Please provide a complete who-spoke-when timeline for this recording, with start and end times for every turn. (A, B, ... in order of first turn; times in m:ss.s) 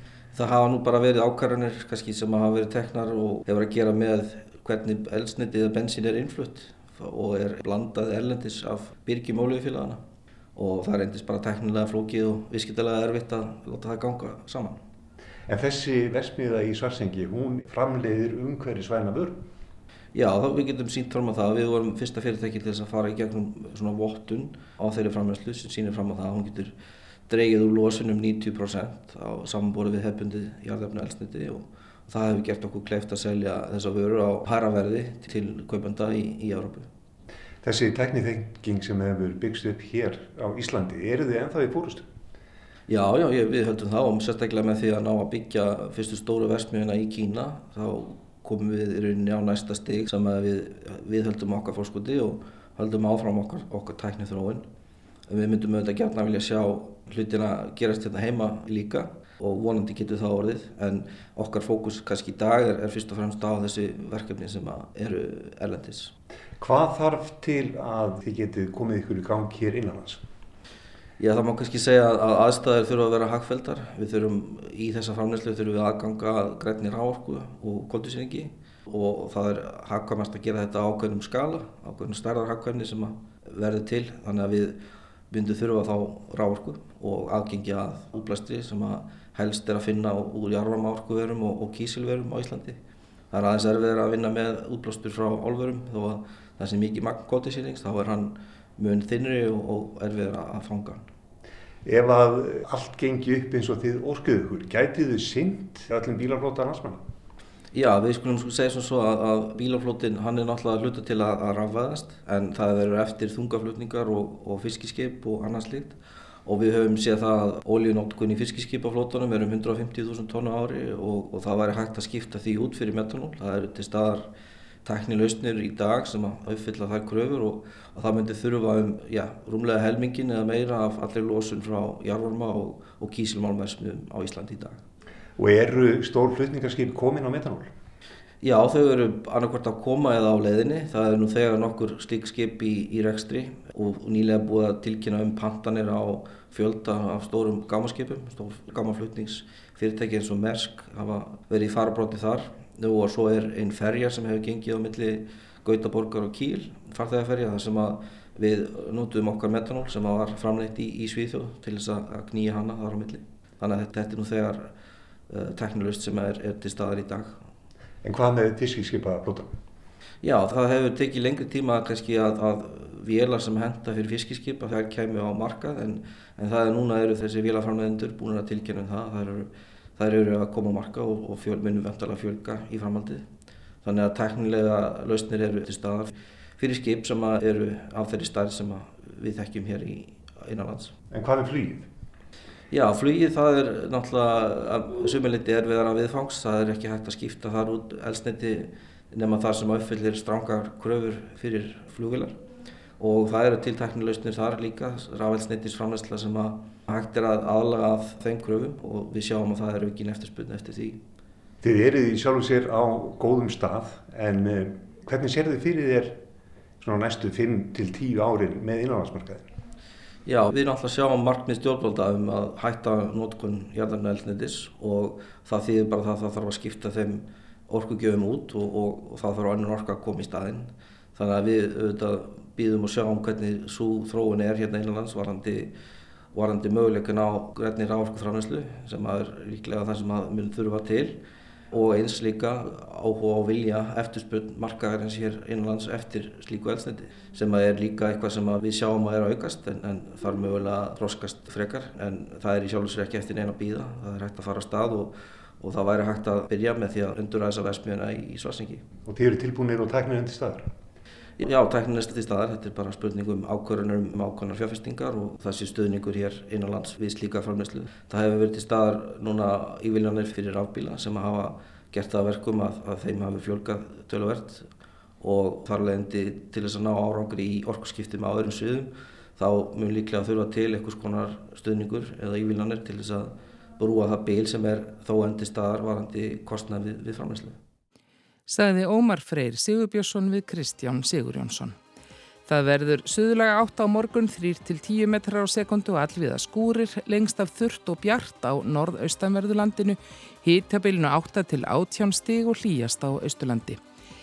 0:00.3-0:10.0 A
0:10.6-0:14.8 A
0:15.5-0:19.4 B
0:20.1-0:26.7 A
0:27.3-0:36.9 A
0:37.6-0:42.1 B
0:42.9-0:54.7 A
0:55.3-1:06.1 A
1:06.6-1:10.2 B
1:11.2-1:24.8 A
1:25.3-1:32.8 A
1:33.3-1:41.1 A
1:41.8-1:47.0 B
1:47.7-2:04.3 A
2:04.8-2:14.8 A
2:15.4-2:17.7 B
2:18.4-2:44.7 A
2:45.3-2:47.4 A
2:48.0-2:49.6 B
2:50.2-3:03.2 A
3:03.8-3:10.9 A
3:11.1-3:11.9 B
3:12.7-3:22.4 A
3:23.0-3:31.0 A
3:31.6-3:36.2 B
3:36.8-3:39.5 B
3:40.2-3:55.7 A
3:56.3-4:01.2 A
4:01.7-4:18.8 A
4:19.0-4:20.7 B
4:21.4-4:34.7 A
4:35.2-4:47.6 A
4:48.5-4:51.8 C
4:52.5-5:03.8 C